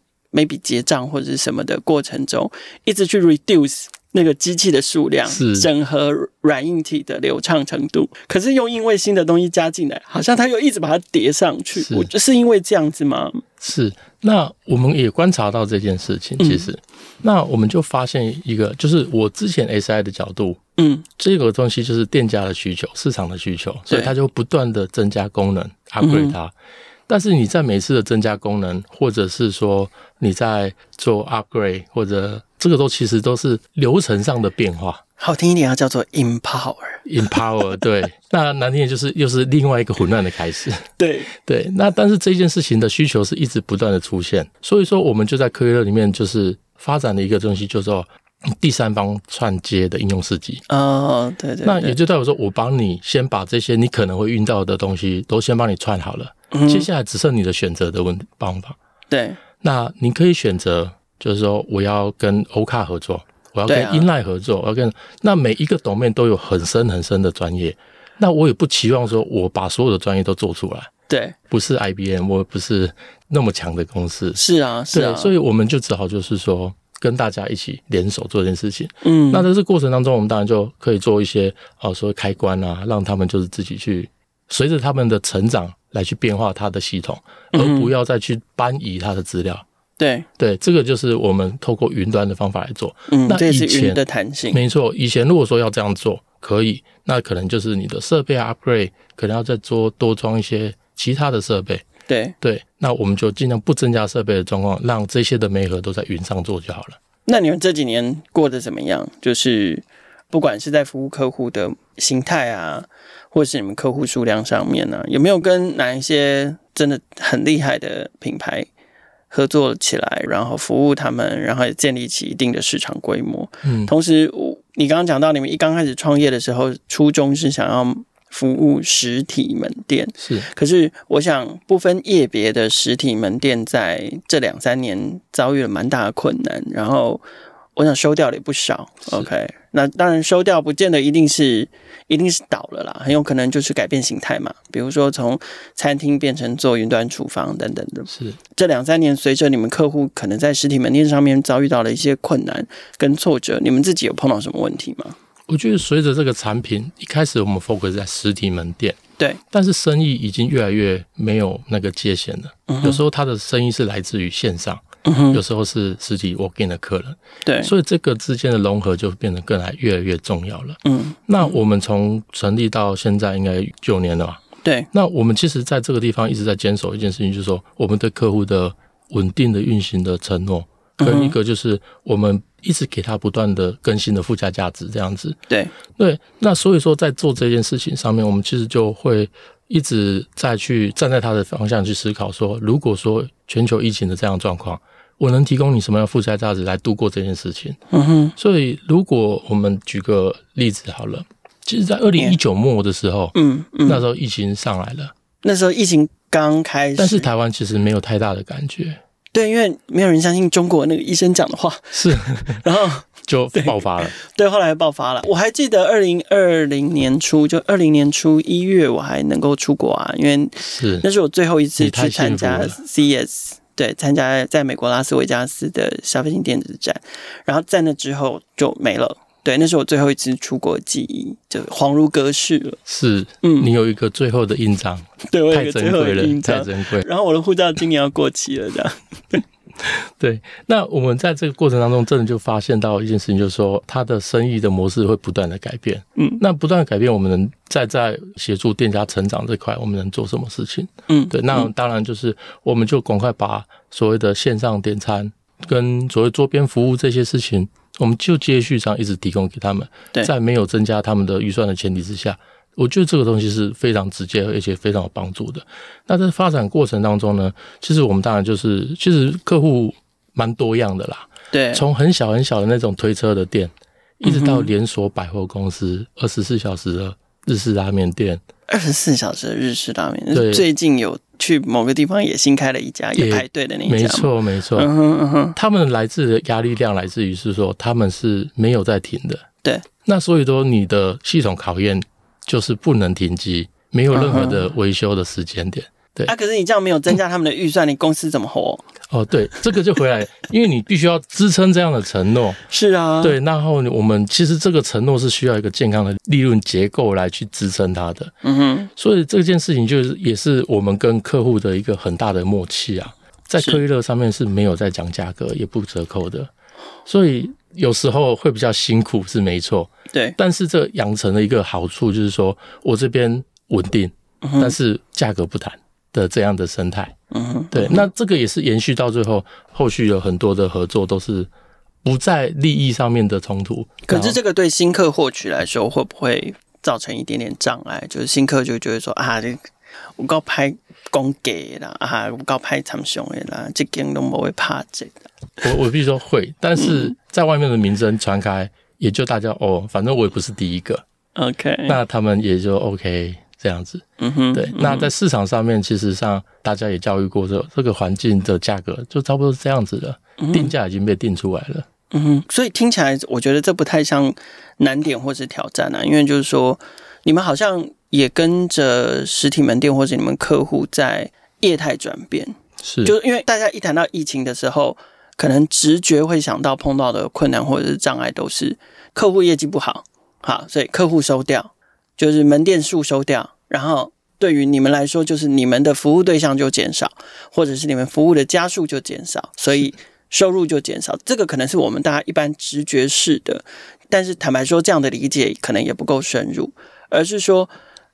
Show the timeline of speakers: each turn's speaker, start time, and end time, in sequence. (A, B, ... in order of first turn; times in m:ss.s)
0:00.3-0:13.4 A
0:05.2-0:05.7 B
0:11.8-0:12.1 B
0:13.6-0:20.6 B
0:16.4-0:16.7 A
0:20.8-0:21.0 A
0:21.2-0:26.5 B
0:26.0-0:26.4 A
0:27.1-0:35.0 B
0:35.2-0:37.4 A
0:37.0-0:50.6 B
0:41.0-0:41.3 A
0:50.7-0:52.0 A
0:51.6-0:58.8 B
0:56.5-0:56.9 A
0:59.1-0:59.4 A
0:59.6-1:10.9 B
1:03.6-1:04.0 A
1:11.1-1:11.4 A
1:11.5-1:14.4 B
1:14.4-1:15.3 A
1:14.9-1:29.6 B
1:19.0-1:19.5 A
1:27.5-1:27.9 A
1:30.0-1:30.3 A
1:30.4-1:34.0 B
1:33.1-1:34.6 A
1:34.5-1:41.8 B
1:42.1-1:42.3 A
1:42.4-1:47.0 B
1:47.2-1:58.7 A
1:59.3-2:17.2 A
2:03.6-2:03.9 B
2:10.2-2:10.5 B
2:17.8-2:35.2 A
2:28.1-2:28.4 B
2:35.5-2:39.0 B
2:39.5-3:05.4 B
2:42.7-2:43.0 A
2:45.0-2:45.4 A
2:47.4-2:47.7 A
2:50.8-2:51.5 A
2:54.6-2:54.9 A
3:01.0-3:01.3 A
3:05.5-3:05.7 A
3:05.9-3:17.8 B
3:17.9-3:18.4 A
3:18.4-3:25.1 B
3:23.3-3:24.0 A
3:25.4-3:27.3 A
3:27.0-3:29.0 B
3:29.3-3:52.8 A
3:31.9-3:32.6 B
3:33.2-3:34.1 B
3:40.6-3:41.0 B
3:41.8-3:42.8 B
3:52.8-3:57.0 B
3:53.4-3:53.7 A
3:55.2-3:59.4 A
3:59.8-4:38.4 B
4:11.1-4:11.7 A
4:31.5-4:31.8 A
4:34.2-4:34.7 A
4:38.7-4:45.6 A
4:40.3-4:40.6 B
4:43.2-4:44.9 B
4:45.6-4:49.4 B
4:50.0-4:56.3 B
4:54.1-4:54.7 A
4:56.2-4:58.8 A
4:59.1-5:02.6 B
5:02.7-5:03.4 A
5:03.2-5:08.3 B
5:08.4-5:08.9 A
5:09.0-5:16.5 B
5:17.0-5:27.1 B
5:20.1-5:20.4 A
5:24.4-5:24.7 A
5:27.3-5:28.1 A
5:27.7-5:31.5 B
5:32.0-5:34.4 B
5:34.1-5:39.6 A
5:40.2-5:45.3 A
5:45.6-5:51.0 B
5:46.8-5:47.1 A
5:51.4-5:52.0 A
5:51.9-6:01.9 B
5:54.2-5:55.1 A
6:00.4-6:00.7 A
6:02.1-6:37.7 A
6:12.8-6:13.1 B